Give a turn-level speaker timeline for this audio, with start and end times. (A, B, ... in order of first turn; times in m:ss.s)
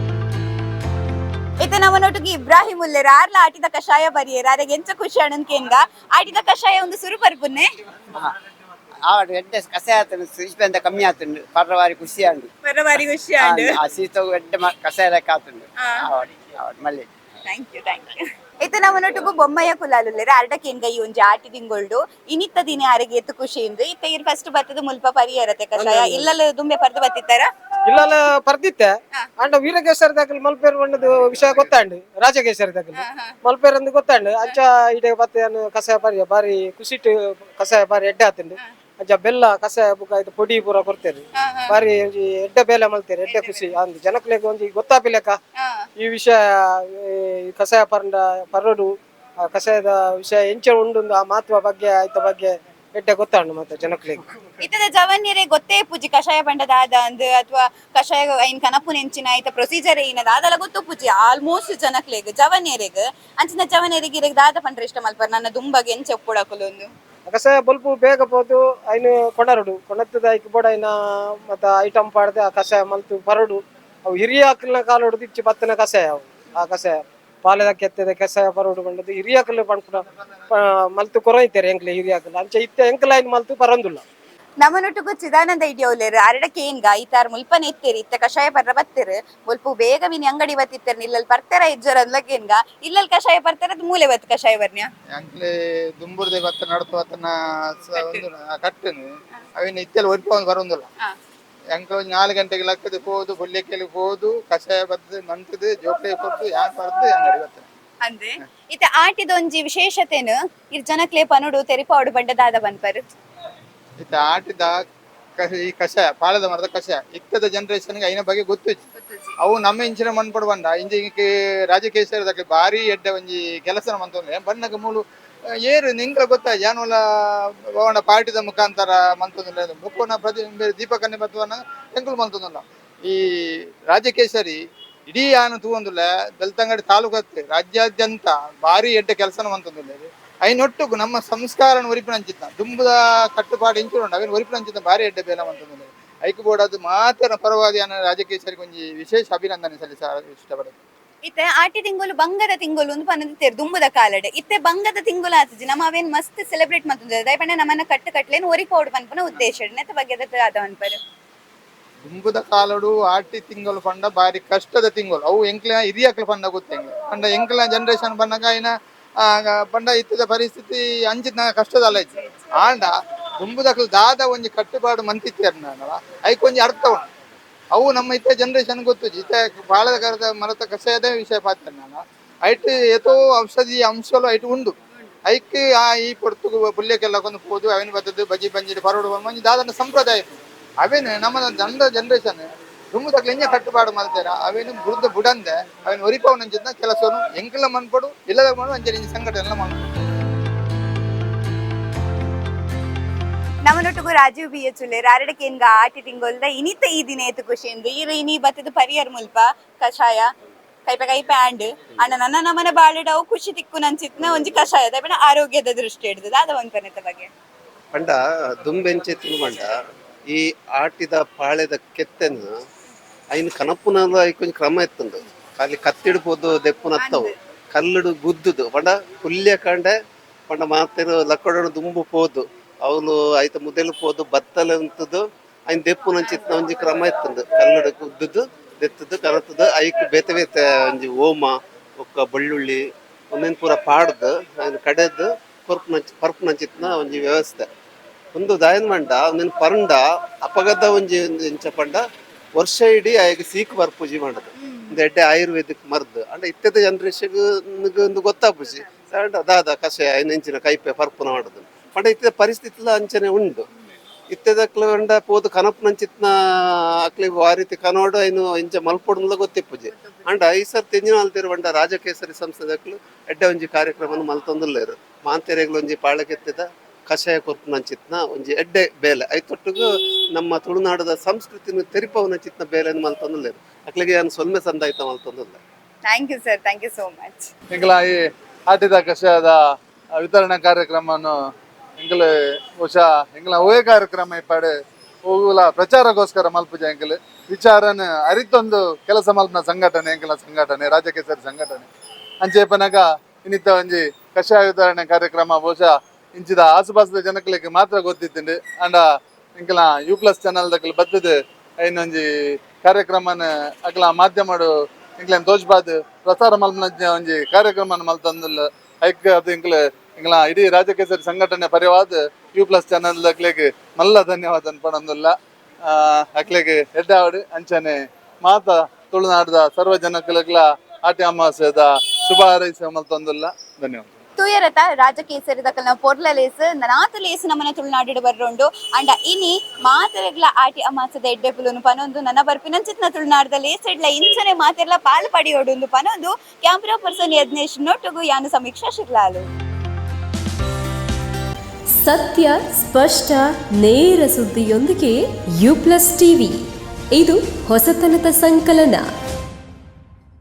0:01.6-0:07.7 A
0:09.1-0:12.5 B
0:12.6-0:13.8 A
0:13.4-0:17.1 B
0:15.8-0:16.1 A
0:17.5-0:27.5 A
0:25.8-0:26.3 C
0:27.9-0:45.4 C
0:32.9-0:33.4 A
0:41.4-0:41.8 A
0:43.3-0:43.7 A
0:45.6-0:45.8 A
0:46.0-0:54.5 C
0:54.6-1:06.9 A
1:07.3-1:24.0 C
1:24.6-1:34.9 A
1:35.1-1:40.9 D
1:38.0-1:38.2 A
1:41.8-1:47.7 D
1:48.0-1:53.0 A
1:54.0-1:54.8 D
1:55.4-1:58.8 D
1:59.0-1:59.4 A
1:59.4-2:05.0 D
2:05.7-2:30.8 D
2:31.3-2:41.0 A
2:42.0-2:48.7 D
2:49.2-2:57.0 D
2:57.7-3:19.9 D
3:23.7-3:30.3 A
3:30.9-3:37.3 A
3:37.9-3:39.7 E
3:40.3-3:42.5 E
3:43.3-3:49.9 E
3:47.0-3:47.3 A
3:50.5-4:02.8 E
4:03.3-4:07.7 E
4:08.4-4:12.0 E
4:12.6-4:23.7 E
4:24.3-4:26.3 E
4:27.1-4:45.6 E
4:46.1-4:47.5 A
4:47.7-4:49.6 F
4:50.2-4:51.4 F
4:52.0-4:54.7 F
4:55.2-5:01.9 F
5:02.4-5:09.0 F
5:09.6-5:34.1 F
5:34.4-5:49.5 A
5:51.9-5:56.6 G
5:57.1-5:59.1 G